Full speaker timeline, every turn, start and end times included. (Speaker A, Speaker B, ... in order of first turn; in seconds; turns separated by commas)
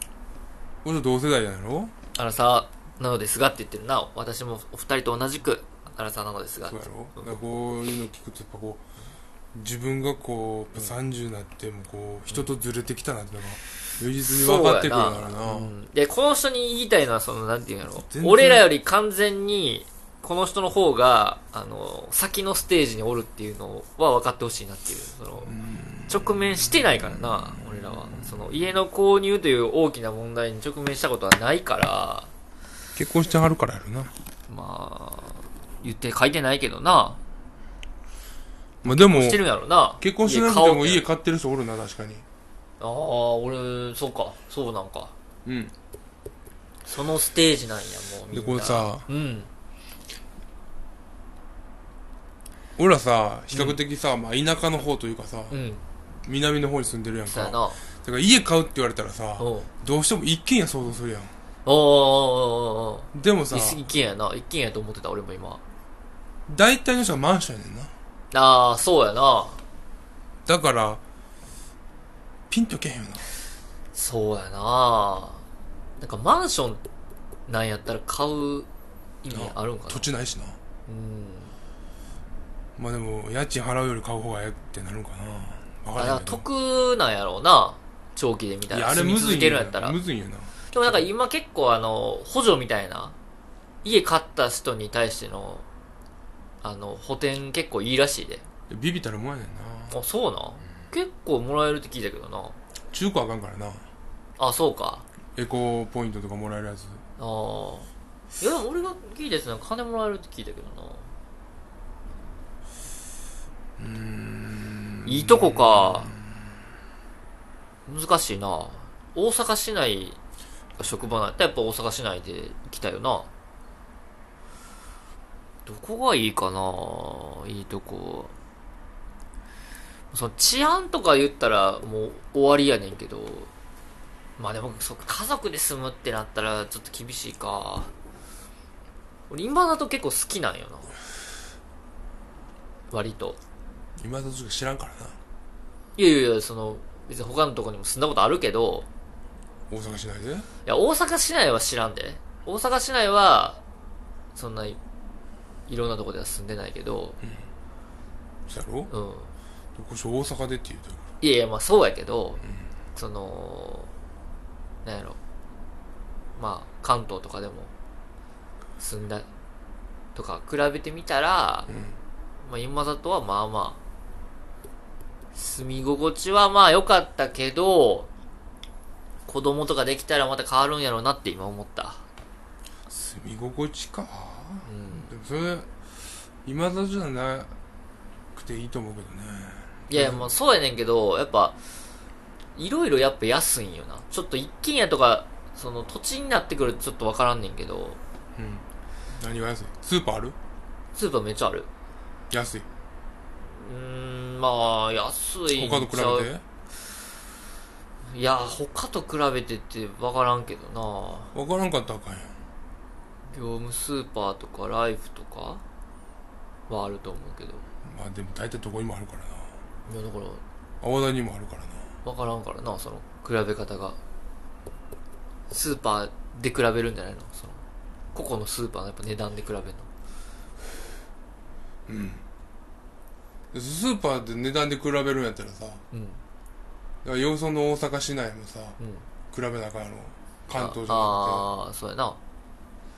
Speaker A: 0.8-1.9, Speaker B: 2.1-6.8, Speaker A: 6.6-8.8, Speaker A: 9.5-15.7, Speaker B: 14.2-32.3, Speaker A: 17.9-18.7, Speaker A: 25.4-26.8, Speaker A: 33.0-34.1, Speaker B: 34.5-37.2, Speaker A: 38.8-39.4, Speaker B: 38.8-41.1, Speaker A: 40.0-42.2, Speaker B: 42.8-45.1, Speaker A: 45.4-45.7, Speaker B: 46.8-49.5, Speaker A: 48.3-49.1, Speaker A: 52.8-55.6, Speaker B: 53.5-53.8, Speaker B: 55.5-55.8, Speaker A: 56.2-61.3, Speaker B: 57.2-57.8, Speaker B: 59.4-59.7, Speaker B: 61.6-65.6, Speaker A: 63.1-63.9, Speaker A: 66.5-67.9, Speaker B: 68.3-69.6, Speaker A: 70.5-71.0, Speaker A: 72.5-73.2, Speaker B: 73.9-75.4, Speaker B: 76.0-76.8, Speaker B: 77.5-78.7, Speaker B: 79.2-80.1, Speaker A: 79.3-80.6, Speaker B: 80.9-81.6, Speaker A: 82.8-86.4, Speaker B: 86.0-90.0, Speaker A: 88.7-91.1, Speaker B: 90.7-93.2, Speaker B: 93.8-95.7, Speaker B: 96.6-98.4, Speaker A: 98.7-100.0, Speaker B: 99.9-102.6, Speaker A: 102.9-103.8, Speaker B: 104.4-105.0, Speaker A: 105.3-107.0, Speaker B: 107.2-111.1, Speaker A: 113.8-116.2, Speaker B: 115.0-116.2, Speaker B: 117.9-120.2, Speaker B: 120.8-123.3, Speaker B: 125.6-128.3, Speaker B: 130.1-133.5, Speaker B: 134.4-137.9, Speaker B: 139.3-140.9, Speaker B: 142.9-143.4, Speaker A: 144.0-145.2, Speaker B: 145.9-148.9, Speaker A: 149.7-150.5, Speaker B: 150.6-153.6, Speaker B: 154.3-154.8, Speaker B: 155.7-157.2, Speaker A: 158.5-158.9, Speaker B: 158.9-159.3, Speaker A: 159.7-161.1, Speaker B: 161.2-162.4, Speaker B: 162.9-163.9, Speaker B: 164.8-165.2, Speaker B: 166.3-167.7, Speaker B: 168.8-169.3, Speaker B: 170.1-171.7, Speaker A: 171.7-172.0, Speaker B: 172.4-173.8, Speaker B: 175.3-178.1, Speaker B: 179.2-182.0, Speaker A: 182.9-185.7, Speaker B: 184.7-185.1, Speaker A: 186.4-187.5, Speaker A: 188.3-190.3, Speaker B: 189.9-191.6, Speaker B: 192.6-198.0, Speaker A: 198.4-200.3, Speaker B: 200.9-201.7, Speaker A: 202.3-202.7, Speaker B: 203.4-206.3, Speaker A: 205.5-206.4, Speaker B: 208.1-211.3, Speaker A: 211.3-212.3, Speaker B: 213.3-215.6, Speaker B: 216.7-217.6, Speaker A: 217.8-219.5, Speaker B: 219.9-220.4, Speaker A: 220.8-221.9, Speaker B: 222.0-224.0, Speaker B: 225.5-227.6, Speaker B: 228.1-229.9, Speaker A: 231.9-232.2, Speaker A: 233.5-235.8, Speaker B: 235.9-236.2, Speaker A: 237.0-238.8, Speaker B: 238.8-239.1, Speaker A: 239.3-241.5, Speaker B: 240.5-242.2